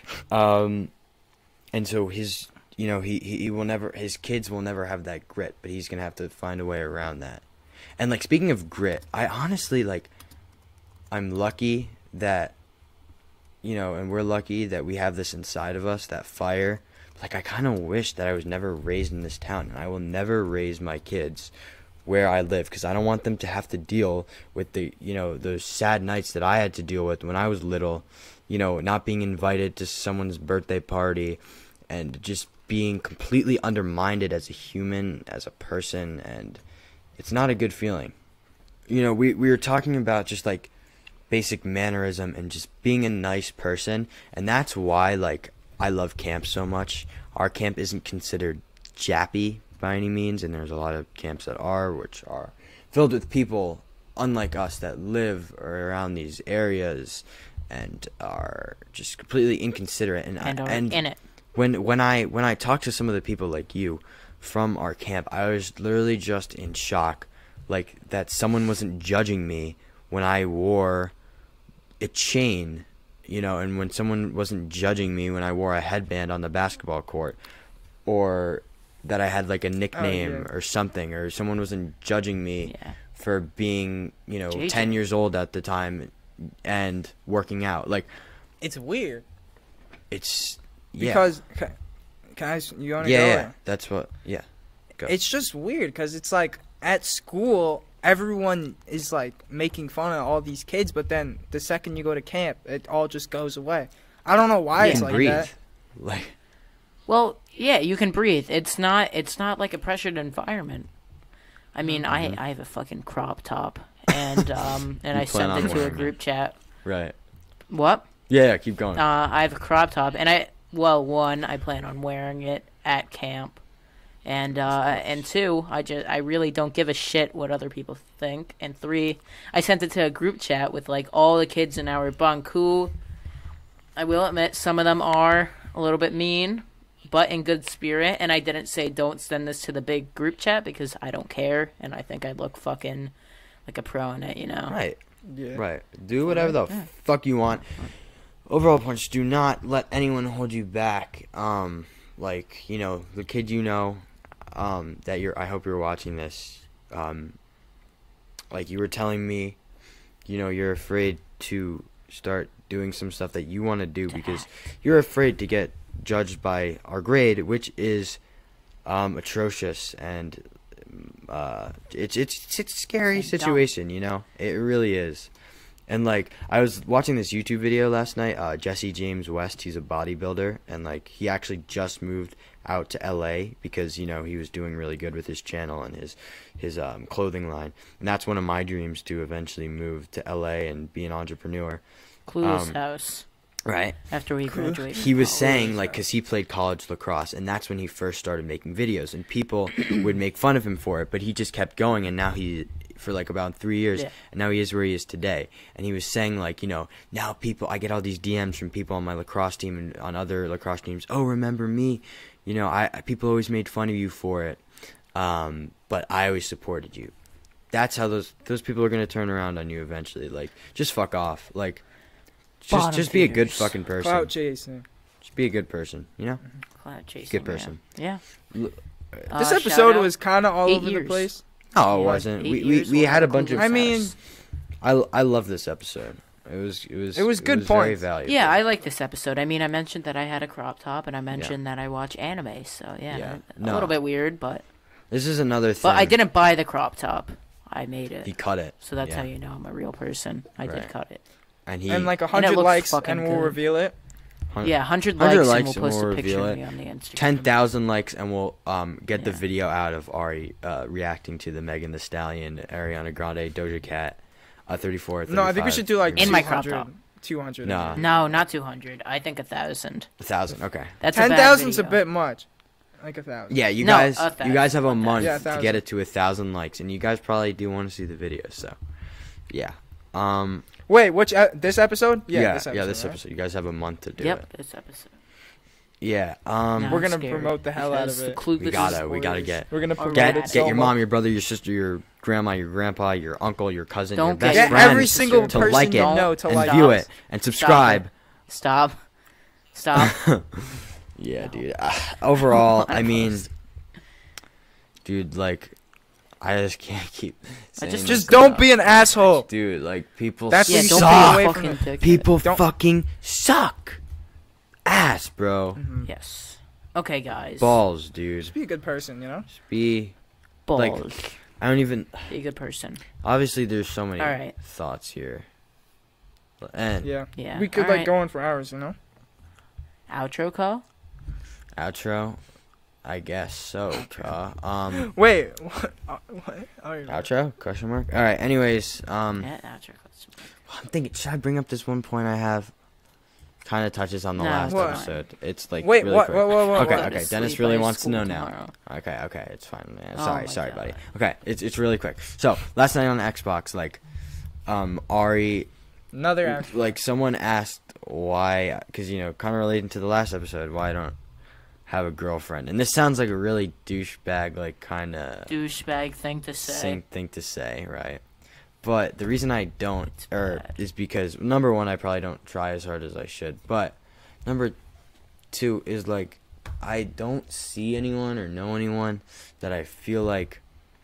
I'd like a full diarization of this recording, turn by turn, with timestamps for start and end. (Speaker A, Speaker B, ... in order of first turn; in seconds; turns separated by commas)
Speaker A: 0.3-0.9, Speaker A: 1.7-7.4, Speaker A: 8.0-10.1, Speaker A: 11.1-12.5, Speaker A: 13.6-21.5, Speaker A: 22.1-36.6, Speaker A: 37.2-38.1, Speaker A: 38.9-40.7, Speaker A: 41.3-61.0, Speaker B: 60.4-61.2, Speaker A: 61.5-71.1, Speaker A: 72.0-77.4, Speaker A: 78.0-88.1, Speaker C: 79.9-80.5, Speaker B: 82.6-83.0, Speaker B: 84.5-85.0, Speaker C: 88.6-89.2, Speaker A: 90.1-91.2, Speaker C: 91.0-91.8, Speaker C: 92.3-93.5, Speaker A: 93.0-95.2, Speaker C: 95.0-105.5, Speaker B: 104.8-105.2, Speaker A: 104.8-106.3, Speaker B: 107.1-110.9, Speaker B: 111.7-116.5, Speaker A: 112.1-112.4, Speaker A: 114.1-114.4, Speaker A: 115.1-116.1, Speaker A: 116.8-117.2, Speaker B: 117.7-118.1, Speaker A: 118.3-119.0, Speaker B: 119.0-123.6, Speaker B: 124.2-132.9, Speaker A: 124.7-125.2, Speaker B: 133.9-143.1, Speaker B: 143.7-144.8, Speaker A: 144.7-145.0, Speaker C: 145.2-145.6, Speaker A: 145.5-147.8, Speaker B: 146.3-146.9, Speaker A: 148.5-157.4, Speaker A: 158.5-159.6, Speaker A: 160.2-168.2, Speaker B: 164.1-164.5, Speaker A: 168.8-175.3, Speaker B: 173.2-173.6, Speaker A: 175.9-191.8, Speaker B: 192.3-193.2, Speaker A: 192.4-192.8, Speaker A: 193.7-194.0, Speaker B: 194.1-195.8, Speaker C: 194.5-194.8, Speaker A: 194.9-214.6, Speaker C: 195.4-195.9, Speaker A: 215.1-217.1, Speaker A: 217.7-221.8, Speaker A: 222.6-224.3, Speaker B: 222.7-223.7, Speaker C: 224.0-224.8, Speaker A: 225.2-226.4, Speaker B: 226.8-228.2, Speaker A: 227.3-227.8, Speaker A: 228.5-229.3, Speaker B: 229.3-231.3, Speaker C: 229.3-231.4, Speaker A: 231.7-234.1, Speaker B: 232.0-234.1, Speaker C: 233.5-234.1, Speaker A: 234.8-238.5, Speaker C: 237.1-238.0, Speaker B: 238.2-244.6, Speaker A: 243.1-243.9, Speaker A: 245.1-246.1, Speaker B: 245.8-251.2, Speaker A: 248.2-249.3, Speaker A: 250.6-250.9, Speaker A: 251.7-252.2, Speaker C: 251.9-253.9, Speaker B: 252.3-253.6, Speaker A: 254.5-256.6, Speaker B: 254.6-257.5, Speaker A: 257.1-266.5, Speaker B: 259.2-259.4, Speaker C: 265.3-268.0, Speaker B: 266.1-266.9, Speaker A: 267.6-268.0, Speaker B: 268.0-270.1, Speaker A: 270.2-271.0, Speaker B: 271.0-272.0, Speaker C: 271.1-272.4, Speaker C: 273.0-273.6, Speaker A: 273.5-278.8, Speaker B: 273.8-275.4, Speaker C: 275.2-275.8, Speaker A: 279.5-280.6, Speaker C: 280.9-283.2, Speaker A: 282.3-284.4, Speaker B: 284.2-285.1, Speaker A: 286.0-287.1, Speaker B: 286.8-290.8, Speaker C: 286.9-288.9, Speaker A: 288.6-298.1, Speaker C: 289.7-290.9, Speaker B: 294.1-297.1, Speaker C: 294.4-296.9, Speaker B: 297.6-299.0, Speaker B: 299.7-300.2, Speaker A: 299.9-303.5, Speaker B: 301.4-301.6, Speaker B: 302.5-303.5, Speaker A: 305.0-305.8, Speaker A: 306.4-308.6, Speaker B: 307.8-309.1, Speaker C: 308.1-309.5, Speaker A: 309.5-314.0, Speaker C: 310.5-311.8, Speaker B: 310.7-312.3, Speaker A: 314.9-315.8, Speaker C: 315.8-316.1, Speaker B: 316.0-317.8, Speaker A: 317.6-318.5, Speaker C: 318.5-319.5, Speaker A: 319.5-320.1, Speaker B: 320.7-321.4, Speaker A: 320.8-322.3, Speaker B: 322.3-323.0, Speaker A: 323.2-325.5, Speaker B: 324.2-324.5, Speaker A: 326.6-327.1, Speaker C: 327.0-328.9, Speaker B: 327.4-328.1, Speaker B: 330.1-330.8, Speaker A: 331.8-332.4, Speaker A: 333.0-335.1, Speaker C: 334.0-334.3, Speaker C: 334.9-337.2, Speaker A: 337.1-339.5, Speaker B: 339.4-340.5, Speaker A: 340.7-342.7, Speaker A: 343.6-354.0, Speaker B: 344.4-345.2, Speaker C: 344.7-345.0, Speaker C: 345.8-347.1, Speaker B: 346.7-348.7, Speaker B: 350.1-351.0, Speaker A: 354.6-355.7, Speaker C: 356.1-356.8, Speaker A: 356.4-361.2, Speaker A: 361.9-365.5, Speaker B: 365.5-367.0, Speaker A: 366.6-368.2, Speaker A: 368.8-374.8, Speaker B: 370.3-370.8, Speaker A: 375.5-380.6